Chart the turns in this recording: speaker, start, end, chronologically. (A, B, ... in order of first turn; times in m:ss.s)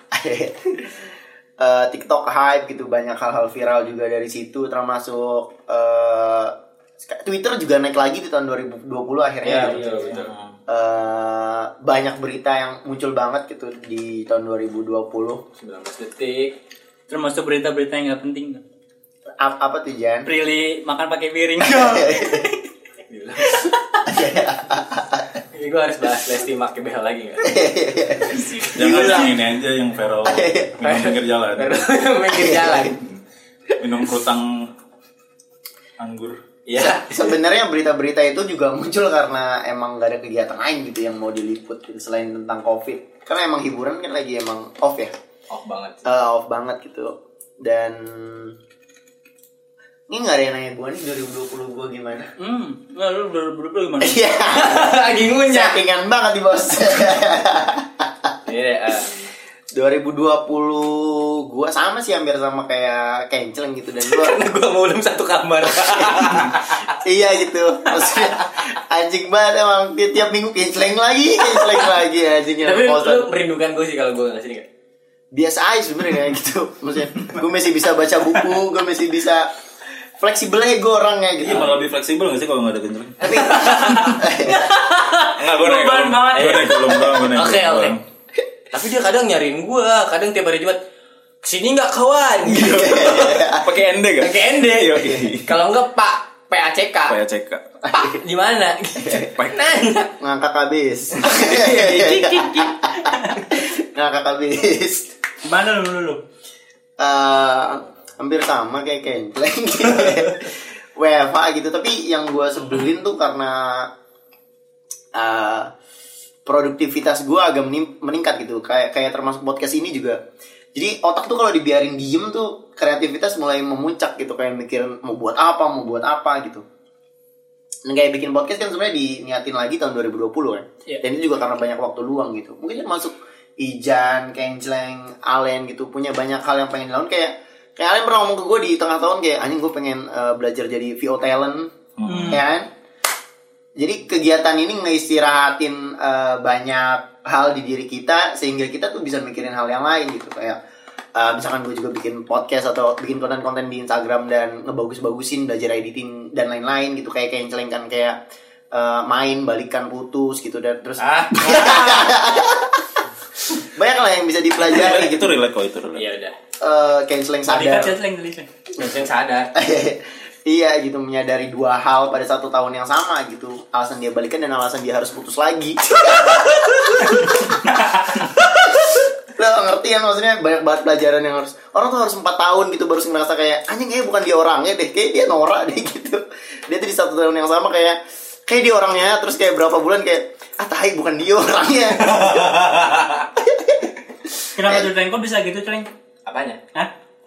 0:00.1-0:09.9 A
0:09.4-0:10.3 B
0:09.5-0:10.2 C
0:10.1-0:10.6 D
0:10.7-0:15.4 A
0:15.6-0:16.6 B
0:17.1-0:18.6 C
0:19.4-0:20.3 A
0:20.2-0:22.4 C
0:21.6-0:22.6 A
0:23.1-0:23.8 B
0:23.6-0:25.4 A
0:25.5-0:27.5 B
0:27.4-0:29.4 A
0:28.3-0:29.1 C
0:28.7-0:31.8 D
0:30.2-0:30.8 A
0:30.8-0:33.0 B
0:32.3-0:33.0 A
0:33.8-0:34.7 D
0:36.0-0:36.4 D
0:36.7-0:37.4 B
0:36.8-0:45.1 A
0:45.5-0:46.1 B
0:46.0-0:48.6 A
0:50.1-0:52.3 A
0:52.4-0:54.3 C
0:54.0-0:58.3 A
0:54.5-0:55.8 B
0:58.4-0:59.3 B
0:59.7-1:04.4 A
1:04.0-1:07.0 B
1:05.7-1:13.3 A
1:08.0-1:08.7 B
1:11.5-1:12.0 B
1:12.6-1:14.7 B
1:15.3-1:19.5 A
1:20.2-1:21.8 A
1:21.4-1:23.7 D
1:23.2-1:24.7 A
1:23.3-1:24.1 B
1:23.5-1:26.9 C
1:25.4-1:28.0 D
1:26.3-1:28.0 B
1:28.7-1:30.8 B
1:31.4-1:33.5 B
1:32.5-1:33.7 A
1:32.5-1:35.5 D
1:34.2-1:37.2 B
1:35.0-1:35.3 A
1:37.1-1:37.8 D
1:37.9-1:40.1 B
1:39.0-1:39.3 A
1:40.2-1:45.1 A
1:41.2-1:41.9 B
1:41.6-1:43.6 C
1:45.4-1:46.2 C
1:47.0-1:53.9 A
1:55.1-1:55.7 A
1:56.5-2:00.2 A
2:00.7-2:06.6 A
2:07.8-2:21.7 A
2:22.0-2:22.5 D
2:22.1-2:22.5 C
2:22.3-2:22.7 A
2:23.8-2:30.6 A
2:31.2-2:38.2 A
2:38.7-2:45.4 A
2:41.0-2:42.0 B
2:44.6-2:46.1 D
2:45.9-2:46.4 B
2:46.6-2:48.0 A
2:47.5-2:48.5 C
2:48.8-2:49.5 B
2:49.6-3:12.7 A
3:12.0-3:13.3 B
3:13.4-3:13.9 A
3:14.6-3:15.9 C
3:14.6-3:14.9 A
3:16.3-3:16.6 B